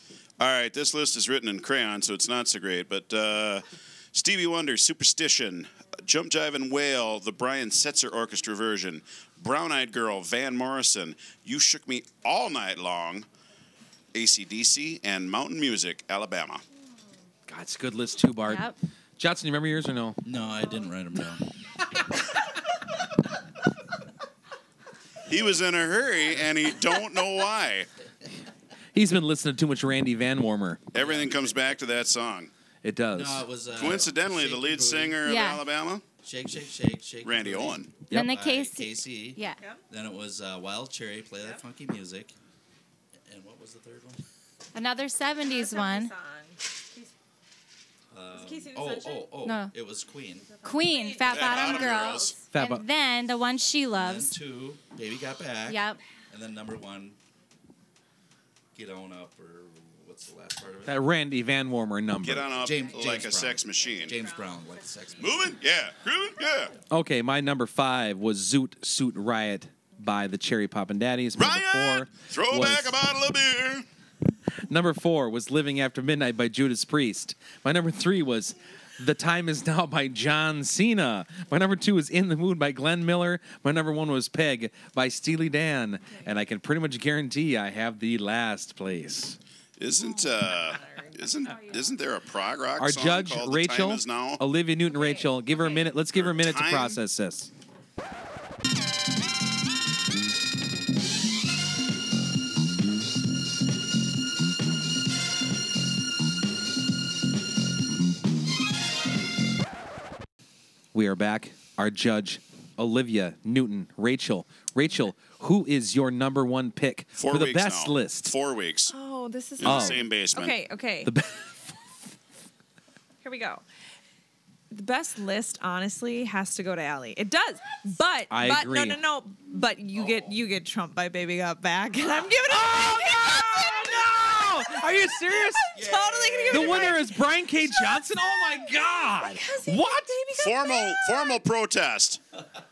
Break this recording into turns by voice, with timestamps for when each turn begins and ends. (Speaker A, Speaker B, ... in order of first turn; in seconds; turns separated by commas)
Speaker A: 0.4-13.3, Speaker A: 14.1-16.6, Speaker B: 17.5-18.7, Speaker C: 18.4-18.8, Speaker B: 19.2-20.2, Speaker D: 20.2-21.4, Speaker A: 25.3-27.9, Speaker B: 28.9-30.8, Speaker A: 30.9-32.5, Speaker D: 30.9-31.6, Speaker B: 32.8-33.5, Speaker D: 33.1-35.2, Speaker A: 33.7-36.0, Speaker C: 35.2-35.6, Speaker D: 36.2-42.4, Speaker A: 37.2-37.9, Speaker C: 38.1-39.6, Speaker D: 43.2-44.2, Speaker C: 44.7-46.1, Speaker E: 45.4-47.1, Speaker D: 48.1-50.5, Speaker E: 48.3-49.4, Speaker C: 49.5-49.7, Speaker E: 50.5-52.4, Speaker C: 50.6-54.3, Speaker A: 51.3-52.4, Speaker B: 52.5-52.9, Speaker D: 53.9-57.2, Speaker C: 55.7-56.0, Speaker D: 58.8-61.0, Speaker B: 60.9-62.5, Speaker A: 62.2-64.2, Speaker D: 62.6-65.6, Speaker E: 63.8-65.1, Speaker A: 65.2-66.7, Speaker B: 66.9-73.0, Speaker A: 71.3-73.9, Speaker B: 74.7-89.4, Speaker A: 89.8-94.5, Speaker E: 90.0-92.0, Speaker B: 92.8-97.5, Speaker E: 94.9-96.0, Speaker A: 96.1-97.0, Speaker B: 110.9-118.3, Speaker A: 117.2-118.9, Speaker E: 118.9-121.1, Speaker A: 119.6-120.6, Speaker B: 119.6-120.0, Speaker B: 121.0-121.5, Speaker E: 123.2-123.6, Speaker E: 124.7-141.4, Speaker B: 128.3-129.0, Speaker D: 129.9-130.4, Speaker B: 132.5-135.7, Speaker D: 135.8-137.1, Speaker B: 136.5-140.2, Speaker A: 140.3-142.2